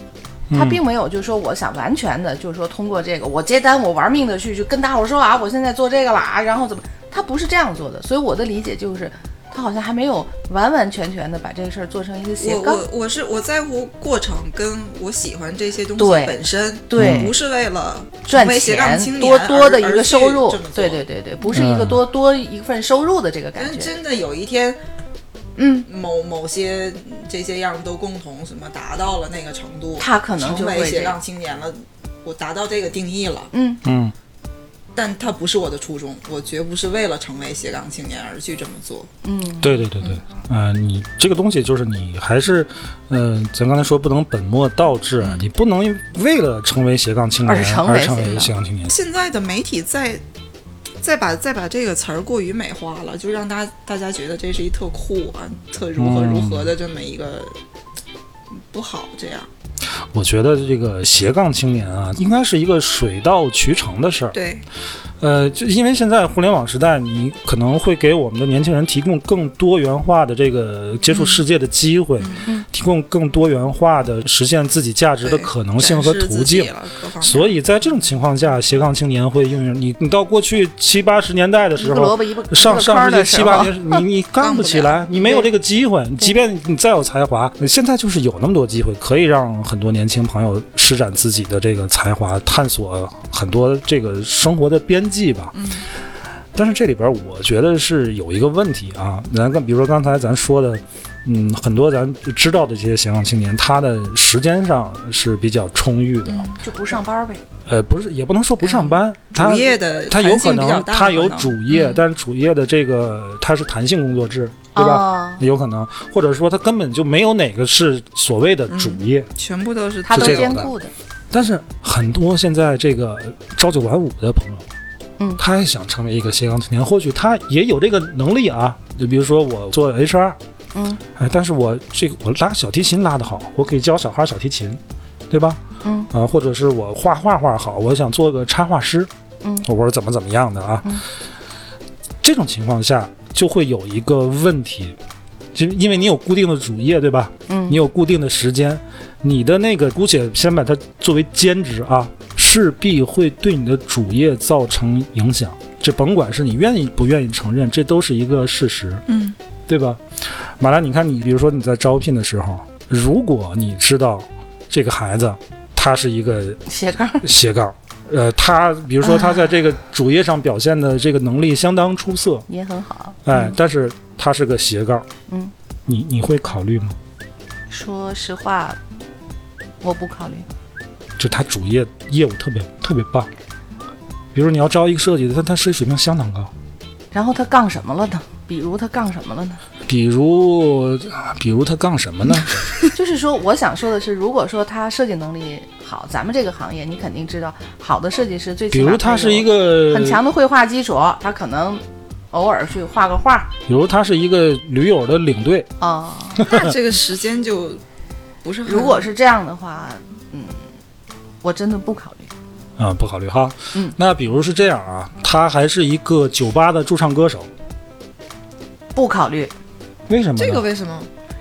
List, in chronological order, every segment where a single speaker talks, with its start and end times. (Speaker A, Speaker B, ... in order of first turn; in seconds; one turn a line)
Speaker A: 0.5-0.8
Speaker B: 0.5-12.9
Speaker C: 12.4-21.0
Speaker B: 16.0-17.4
Speaker A: 17.0-17.3
Speaker B: 18.3-23.9
Speaker A: 21.5-22.0
Speaker C: 23.6-24.8
Speaker B: 25.6-25.9
Speaker C: 25.9-33.5
Speaker B: 30.0-31.2
Speaker B: 33.5-33.8
Speaker A: 33.8-34.1
Speaker C: 34.9-39.1
Speaker B: 39.2-39.9
Speaker A: 39.6-48.9
Speaker C: 45.2-45.5
Speaker B: 47.4-48.5
Speaker C: 48.9-50.2
Speaker C: 51.0-57.5
Speaker A: 56.0-56.7
Speaker C: 58.7-59.5
Speaker A: 60.1-64.4
Speaker C: 64.3-64.6
Speaker A: 65.2-95.5
Speaker C: 71.1-71.4
Speaker C: 72.2-72.5
Speaker C: 75.2-77.5
Speaker B: 81.8-84.0
Speaker C: 84.4-85.0
Speaker B: 85.2-85.5
Speaker C: 95.5-95.9
Speaker A: 96.5-106.5
Speaker C: 106.2-106.6
Speaker B: 106.6-107.4
Speaker A: 107.7-119.3
Speaker C: 108.7-112.0
Speaker B: 114.7-115.4
Speaker C: 118.7-120.6
Speaker B: 120.0-120.9
Speaker A: 120.1-120.7
Speaker A: 121.3-124.7
Speaker A: 125.4-130.4
Speaker B: 130.7-131.0
Speaker A: 131.1-139.1
Speaker B: 135.8-136.1
Speaker B: 139.4-139.7
Speaker A: 139.6-141.0
Speaker A: 142.2-145.0
Speaker A: 145.5-159.0
Speaker B: 147.5-147.8
Speaker C: 159.1-159.3
Speaker A: 159.7-166.6
Speaker B: 166.7-167.3
Speaker A: 167.2-172.4
Speaker B: 172.5-173.6
Speaker A: 173.2-175.1
Speaker B: 175.3-175.5
Speaker A: 175.8-177.0
Speaker B: 177.7-178.8
Speaker B: 179.8-180.4
Speaker A: 181.2-183.3
Speaker A: 184.3-186.5
Speaker B: 187.1-189.6
Speaker A: 189.9-192.7
Speaker B: 192.9-203.5
Speaker A: 198.7-200.2
Speaker A: 203.7-205.7
Speaker B: 205.8-206.6
Speaker A: 206.4-206.7
Speaker C: 206.4-207.8
Speaker C: 208.4-209.1
Speaker B: 208.7-210.6
Speaker B: 211.4-212.3
Speaker A: 212.8-217.5
Speaker B: 218.9-219.5
Speaker A: 220.1-220.6
Speaker C: 220.4-221.1